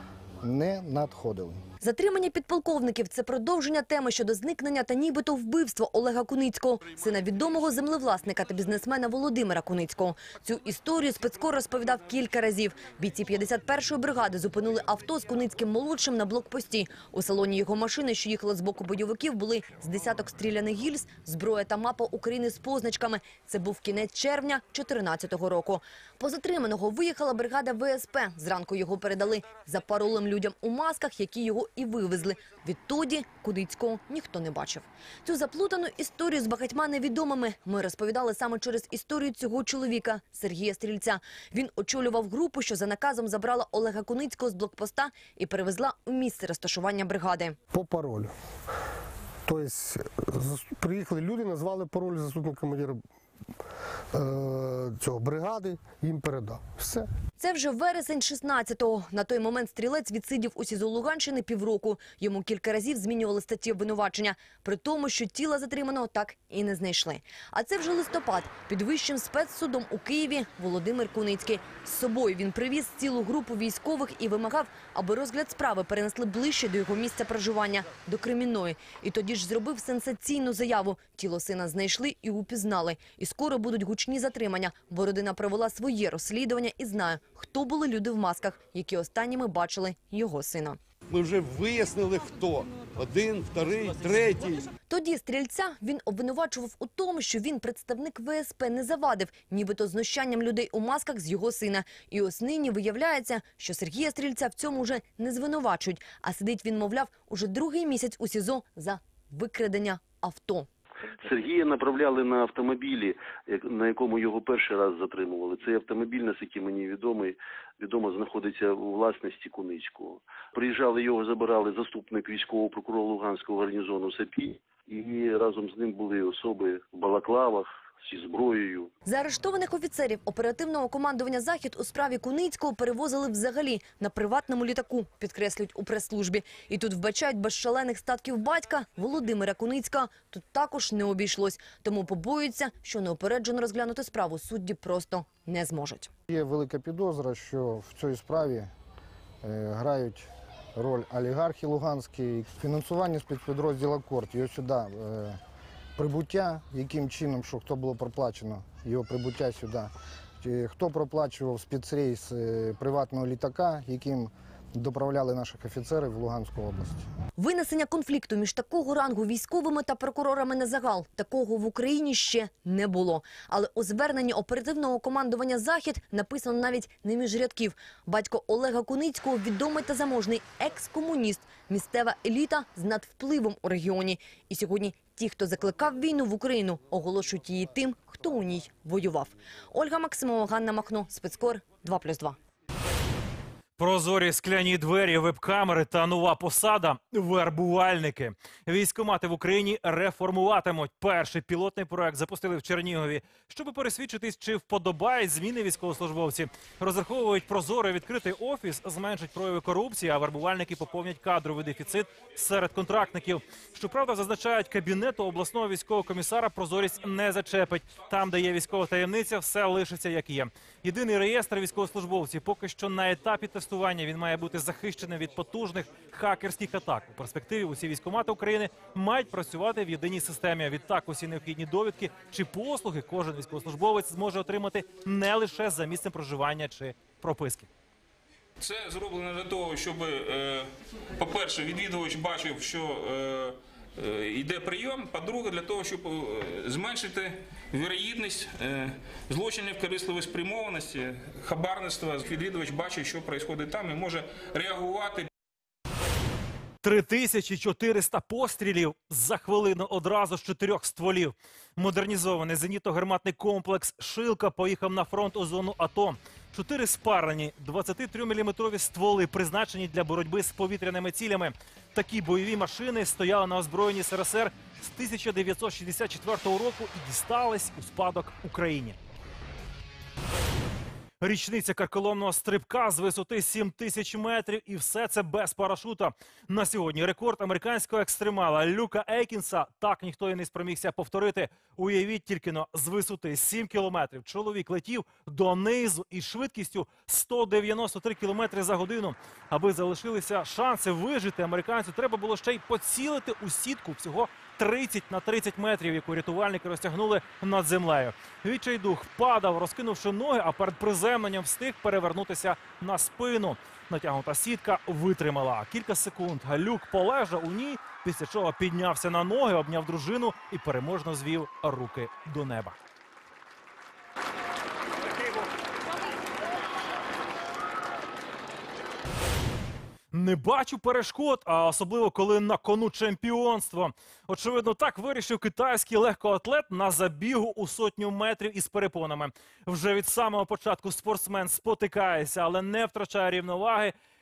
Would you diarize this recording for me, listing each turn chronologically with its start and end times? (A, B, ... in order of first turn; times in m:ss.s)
0:00.4-0:01.6 A
0:01.8-0:47.6 B
0:47.7-0:48.3 C
0:49.5-0:53.0 C
0:54.1-0:57.1 C
0:57.4-1:30.8 B
1:31.1-1:34.7 D
1:34.9-1:50.7 B
1:51.2-2:08.9 E
2:09.1-2:26.1 B
2:26.3-2:28.7 A
2:29.4-2:35.4 A
2:36.0-2:47.1 A
2:47.4-3:12.4 B
3:13.8-3:57.7 F
3:58.6-4:15.3 G
4:16.8-4:39.0 F
4:41.2-5:22.8 F
5:30.1-5:43.9 F